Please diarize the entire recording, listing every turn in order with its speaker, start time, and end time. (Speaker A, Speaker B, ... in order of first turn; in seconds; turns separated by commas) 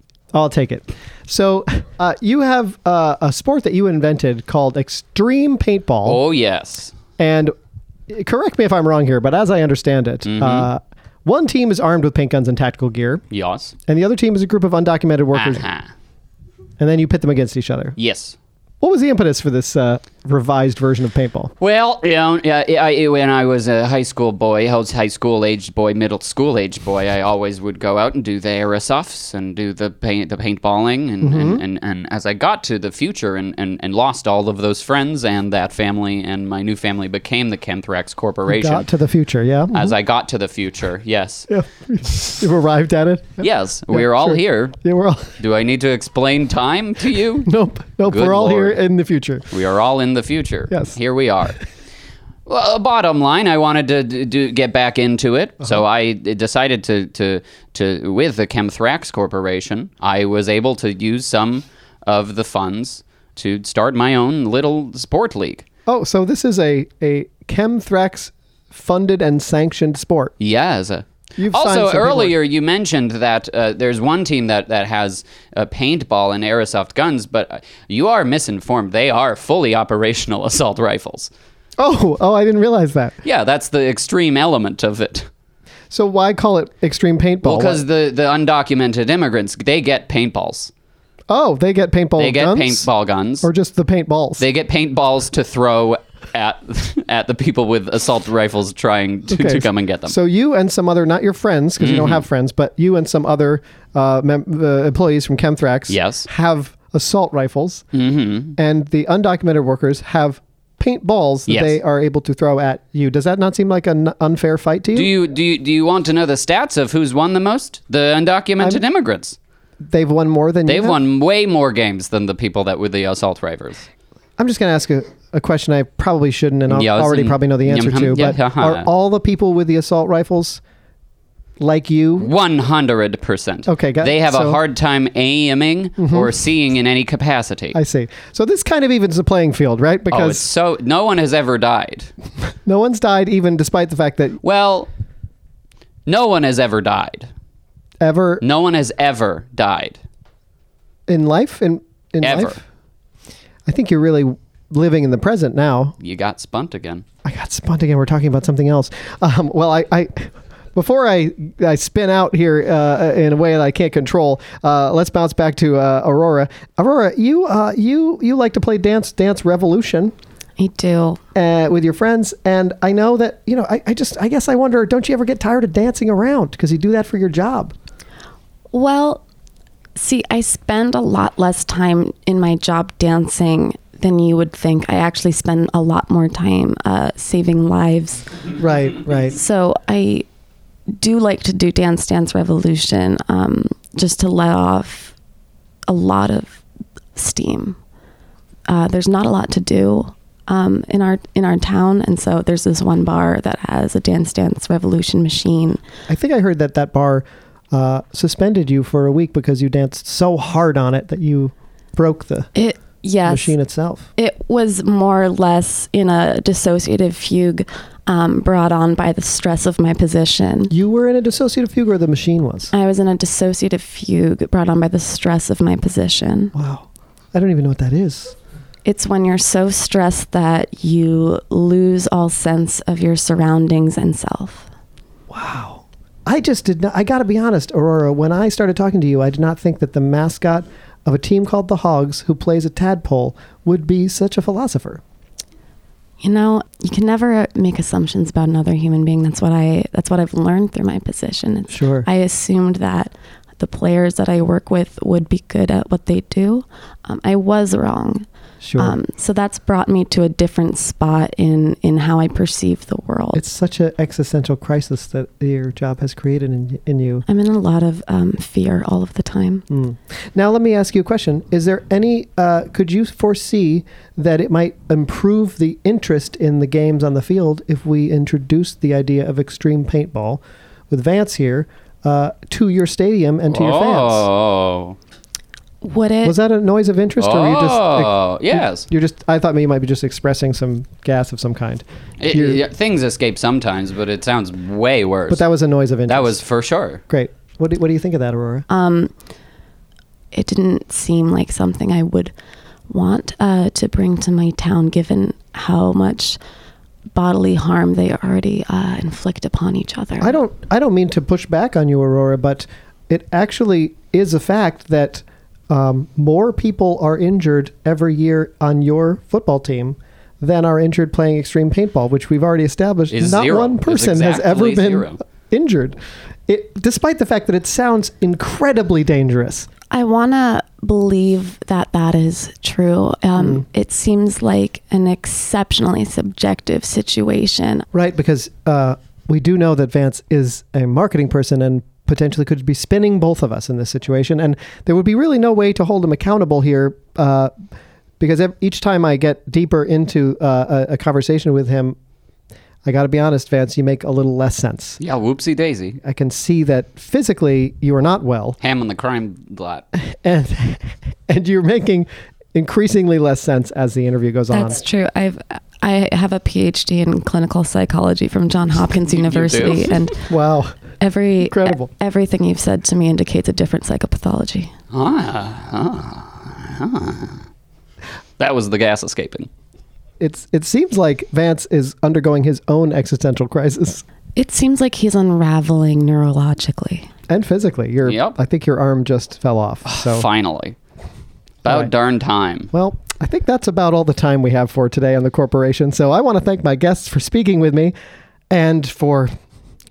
Speaker A: 0.3-6.2, Speaker B: 6.0-6.9, Speaker A: 7.2-7.5, Speaker A: 8.1-13.2, Speaker B: 10.2-10.7, Speaker B: 13.3-13.7, Speaker A: 13.9-15.6, Speaker B: 15.3-15.9, Speaker A: 16.8-18.0, Speaker B: 18.0-18.4, Speaker A: 18.8-21.5, Speaker B: 21.6-38.9, Speaker A: 31.2-31.6, Speaker A: 38.5-40.0, Speaker B: 39.7-41.5, Speaker A: 41.5-45.3, Speaker B: 43.4-44.7, Speaker B: 45.4-47.5, Speaker A: 47.4-49.5, Speaker B: 48.0-48.8, Speaker B: 49.5-51.6, Speaker B: 52.5-65.6, Speaker A: 65.9-70.3, Speaker B: 70.4-81.3, Speaker A: 71.4-72.3, Speaker A: 81.8-83.1, Speaker B: 83.2-85.3, Speaker A: 85.9-87.8, Speaker B: 87.4-90.7, Speaker A: 91.3-92.8, Speaker B: 92.2-93.5, Speaker A: 93.4-94.4, Speaker B: 94.4-100.1, Speaker A: 99.3-107.8, Speaker B: 101.8-102.2, Speaker B: 105.9-106.3, Speaker B: 107.9-108.5, Speaker A: 108.5-115.1, Speaker B: 111.5-111.8, Speaker B: 114.9-119.4, Speaker A: 119.8-121.0, Speaker B: 120.7-123.9, Speaker A: 124.4-130.6, Speaker B: 126.7-128.9, Speaker A: 131.6-132.3, Speaker B: 132.2-137.8, Speaker A: 133.7-134.6, Speaker A: 136.0-136.3, Speaker A: 137.7-140.4, Speaker B: 140.1-142.1, Speaker A: 142.6-144.4, Speaker B: 144.4-144.9, Speaker B: 146.1-147.3, Speaker A: 148.0-148.4, Speaker B: 148.4-150.0, Speaker A: 151.1-152.6, Speaker B: 152.2-152.6, Speaker A: 153.7-155.9, Speaker B: 156.0-157.0, Speaker A: 157.2-170.1, Speaker C: 170.6-171.2, Speaker A: 171.3-177.7, Speaker C: 178.7-179.2, Speaker C: 179.9-188.3, Speaker A: 188.6-189.3, Speaker C: 189.3-190.2, Speaker C: 190.9-195.1, Speaker C: 195.9-196.6, Speaker C: 197.1-197.8, Speaker C: 198.7-205.8, Speaker A: 206.1-212.5, Speaker C: 212.5-213.6, Speaker A: 213.2-214.1, Speaker C: 214.2-220.7, Speaker A: 220.7-222.7, Speaker C: 222.7-226.5, Speaker A: 226.5-228.3, Speaker C: 228.8-234.7, Speaker A: 235.3-245.0, Speaker C: 246.2-258.2, Speaker A: 251.7-252.1, Speaker A: 258.6-259.0, Speaker C: 258.8-263.4, Speaker A: 263.3-267.2, Speaker C: 267.2-269.6, Speaker A: 269.7-284.3, Speaker B: 283.5-285.0, Speaker C: 285.8-286.4, Speaker A: 286.2-292.6, Speaker B: 287.2-288.9, Speaker B: 292.2-295.4, Speaker A: 295.3-296.4, Speaker B: 296.1-297.0, Speaker A: 297.1-298.6, Speaker C: 298.7-299.1, Speaker C: 300.3-302.3, Speaker C: 302.9-306.4, Speaker C: 307.1-310.4, Speaker A: 310.2-329.7, Speaker B: 323.1-325.2, Speaker C: 329.9-337.9, Speaker A: 333.4-333.6, Speaker A: 337.9-347.5, Speaker A: 348.2-352.0, Speaker A: 352.8-355.0, Speaker B: 355.0-356.0, Speaker A: 356.0-358.6, Speaker B: 358.6-359.8, Speaker A: 360.1-364.8, Speaker C: 364.5-370.3, Speaker B: 369.1-370.0, Speaker A: 370.3-370.8, Speaker C: 371.0-374.7, Speaker A: 371.4-371.9, Speaker B: 374.9-377.4, Speaker B: 378.4-379.5, Speaker A: 380.2-384.0, Speaker C: 384.4-387.1, Speaker A: 387.3-390.3, Speaker B: 388.0-388.4, Speaker B: 389.9-390.8, Speaker B: 391.6-392.7, Speaker A: 392.7-397.9, Speaker A: 398.5-399.3